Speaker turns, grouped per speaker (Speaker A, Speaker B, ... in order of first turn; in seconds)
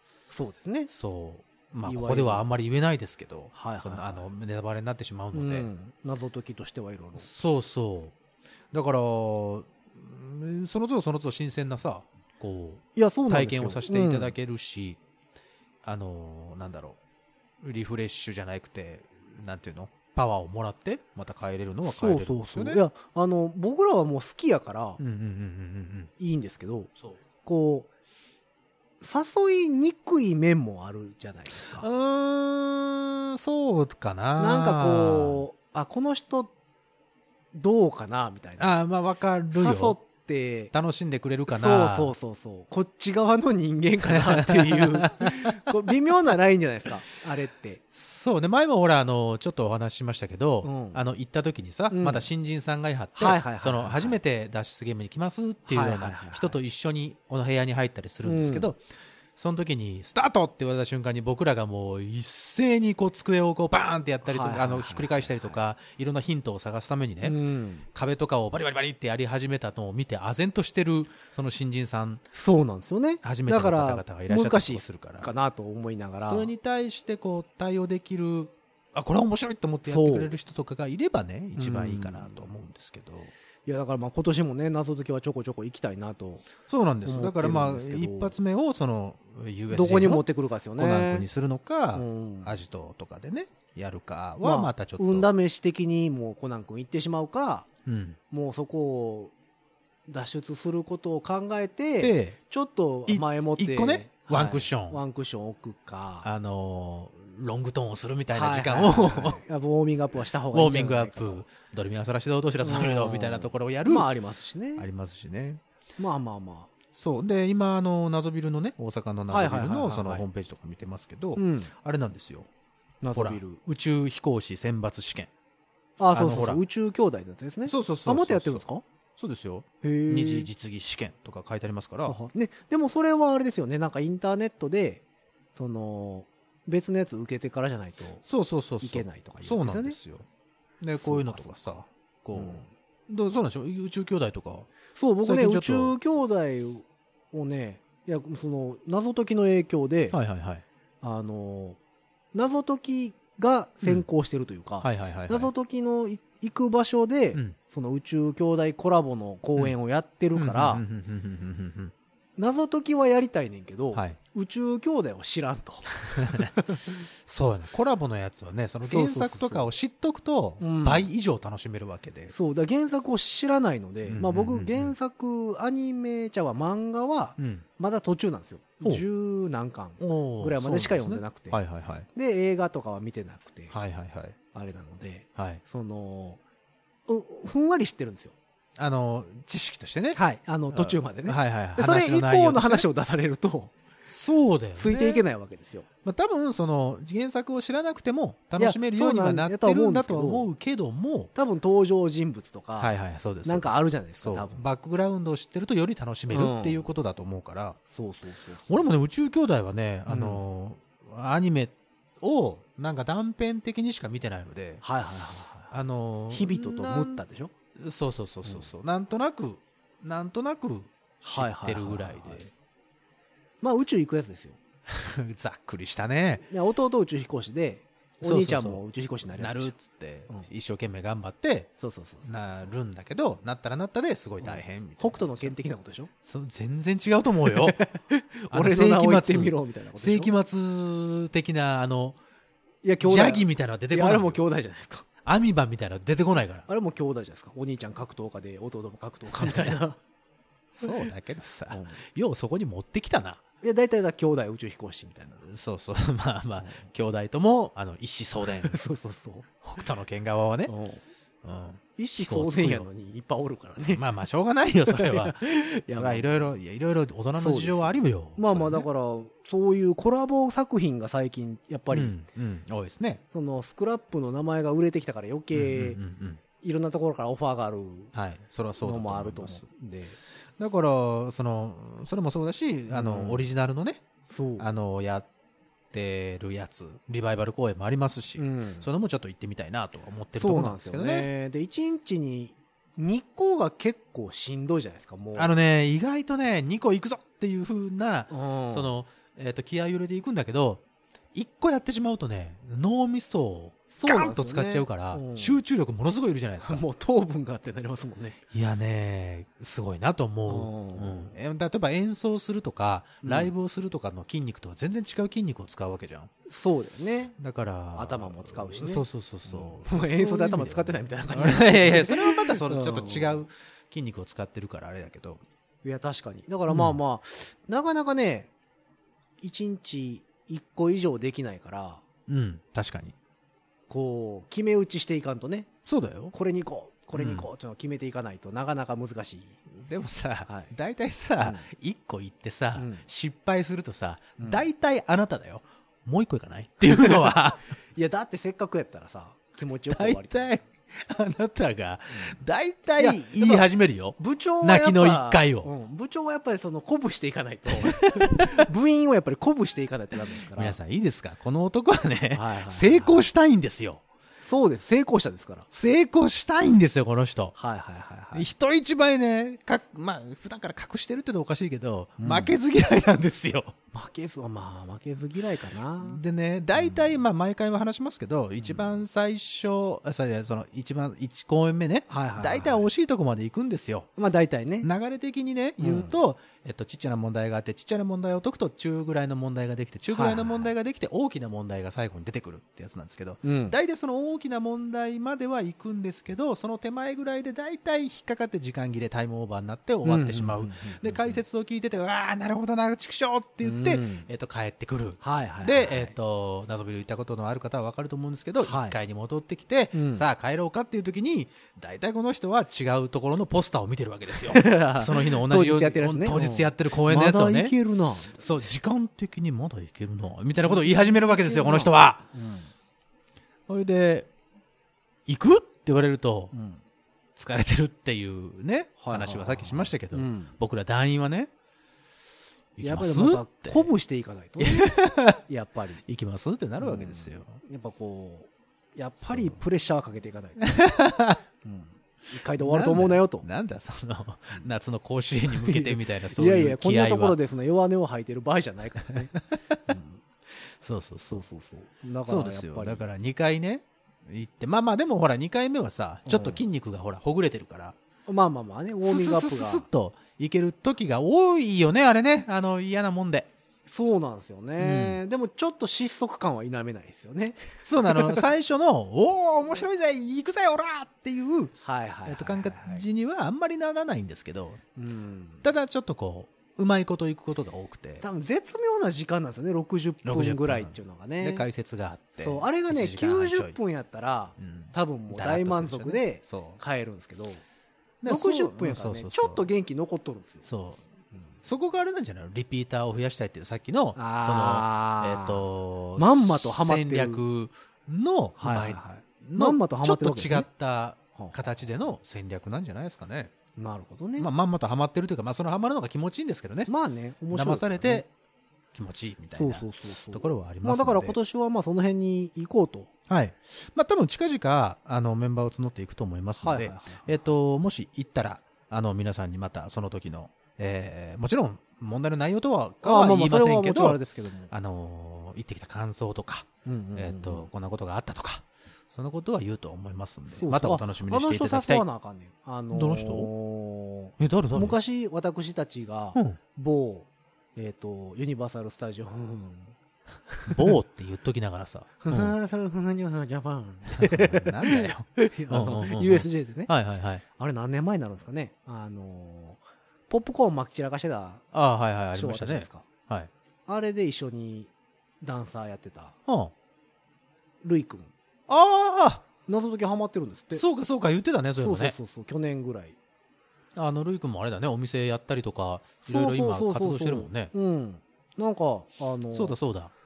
Speaker A: 0.3-0.9, 1.8-2.5, 3.5-4.3, 5.3-7.3, 12.9-14.3, 21.9-25.0, 26.2-26.9, 27.4-27.9, 29.0-31.9, 34.4-36.5, 37.5-38.8, 39.5-40.7, 41.5-47.8, 50.6-51.0, 51.9-52.3, 53.2-54.2, 55.7-56.6, 58.2-58.7, 64.2-65.5, 67.2-67.9, 72.3-76.5, 79.8-80.3, 81.6-82.5, 83.7-86.5, 87.0-88.4, 89.7-91.3, 91.9-92.6, 94.4-97.7, 98.3-99.3, 100.1-106.3, 108.3-111.5, 112.6-114.9, 116.0-116.7, 119.3-120.3, 121.4-121.7, 123.0-123.6, 126.0-128.8, 129.8-130.5, 132.1-135.0, 135.6-138.2, 138.8-140.0, 141.0-142.7, 144.9-150.2, 151.0-151.8, 152.3-160.8, 162.4-167.0, 168.8-169.7, 170.6-171.1, 172.3-181.6, 182.1-183.8, 184.5-186.4, 187.1-188.3, 190.2-193.7, 194.8-195.9, 198.6-200.5, 201.3-202.9, 203.4-204.6, 206.3-206.8, 207.9-208.9, 210.1-210.4, 214.8-215.7, 216.3-217.5, 221.2-222.4, 223.6-224.6, 226.5-229.7, 231.8-232.7, 234.4-236.1, 237.5-240.3, 242.8-245.1, 246.7-250.0, 251.7-252.0, 253.6-255.5, 258.6-259.5, 260.7-261.0, 262.0-264.0, 264.9-266.5, 267.4-272.1, 273.3-276.0, 276.6-278.1, 278.8-280.2, 282.9-283.4, 284.3-284.7, 288.4-288.9, 290.4-295.5, 298.3-298.9, 303.9-305.6, 306.6-308.4, 310.5-311.3, 313.2-313.5, 316.5-317.4, 318.0-323.4, 325.8-328.5, 329.4-332.1, 333.9-335.7, 336.3-339.6, 340.5-340.7, 341.4-341.7, 342.8-343.1, 344.4-344.7, 346.9-350.6, 352.1-352.4, 353.0-360.8, 362.3-363.2, 364.4-365.7, 367.6-368.5, 372.2-372.6, 373.9-376.2, 376.8-377.2, 378.6-379.0, 382.1-382.8, 384.2-384.9, 385.8-386.2, 390.1-390.7, 393.4-393.8, 400.1-401.4, 403.6-404.3, 405.2-406.1, 408.6-409.0, 409.9-410.2, 414.5-418.7, 420.6-422.7, 426.5-426.8, 429.0-430.6, 432.8-436.0, 436.8-440.9, 441.6-443.5, 445.5-449.3, 449.9-450.2, 451.3-453.1, 456.3-456.6, 458.3-459.9, 463.9-468.5, 471.8-473.0, 475.0-475.7, 478.2-481.6, 482.4-487.6, 488.3-490.7, 494.2-495.6, 496.2-497.4, 498.6-500.7, 501.4-501.7, 503.8-504.5, 506.9-508.2, 509.6-513.1, 516.6-517.3, 523.0-524.7, 526.9-527.7, 530.5-540.0, 540.5-540.9, 542.2-546.9, 547.6-551.7, 552.3-553.1, 553.9-556.4, 557.8-558.3, 559.7-560.9, 561.8-563.2, 566.2-569.8
Speaker B: 0.9-5.7, 7.2-8.1, 8.7-15.0, 15.8-17.0, 17.6-22.8, 25.0-26.1, 31.7-35.4, 38.6-40.0, 40.7-42.1, 44.1-45.6, 47.9-58.8, 59.4-67.4, 67.9-72.2, 73.2-75.3, 76.2-83.3, 86.7-90.2, 90.8-95.3, 97.9-98.2, 102.0-102.4, 103.1-105.0, 106.2-109.4, 110.5-114.1, 114.8-115.6, 116.9-122.5, 123.1-125.3, 126.1-126.6, 127.7-128.6, 129.2-132.2, 138.2-140.3, 140.8-144.7, 145.2-145.9, 150.1-150.7, 154.8-155.5, 160.3-161.9, 163.9-164.2, 166.1-166.5, 167.2-172.3, 174.1-174.9, 177.4-177.7, 180.0-182.1, 183.7-184.4, 185.4-185.6, 188.8-190.2, 190.7-192.9, 194.1-195.2, 196.1-201.3, 202.8-207.8, 208.7-214.8, 215.7-217.2, 217.8-222.5, 224.9-226.5, 228.2-231.7, 232.3-235.6, 236.2-237.8, 238.5-242.2, 243.0-244.4, 245.2-246.7, 249.4-249.8, 250.7-253.4, 255.5-258.8, 259.6-260.7, 261.4-262.9, 263.9-268.9, 271.9-273.2, 275.5-276.4, 278.1-279.6, 280.6-284.0, 284.6-285.3, 285.9-291.3, 295.4-306.8, 308.5-316.3, 317.4-325.4, 326.7-327.0, 332.3-333.1, 335.9-336.3, 337.1-337.5, 339.7-347.6, 349.9-355.7, 357.7-358.7, 360.4-364.0, 365.7-367.6, 368.3-373.8, 376.0-384.1, 384.8-417.8, 418.4-422.3, 423.7-424.3, 425.3-426.5, 427.4-431.5, 432.8-433.9, 434.6-435.4, 436.1-437.6, 439.3-439.6, 440.7-441.4, 442.6-447.4, 449.5-449.8, 450.7-451.4, 452.3-458.0, 459.0-463.5, 464.8-465.2, 467.9-471.8, 472.3-474.8, 475.6-478.2, 480.2-483.8, 484.6-486.8, 488.2-489.6, 490.6-491.0, 491.6-503.5, 504.4-506.9, 507.5-508.3, 508.9-511.4, 513.3-532.0, 532.9-533.5, 534.4-535.0, 540.7-542.5, 544.2-547.4, 551.7-553.5, 556.5-556.7, 558.7-559.5, 560.7-562.2, 564.0-567.7, 569.5-570.1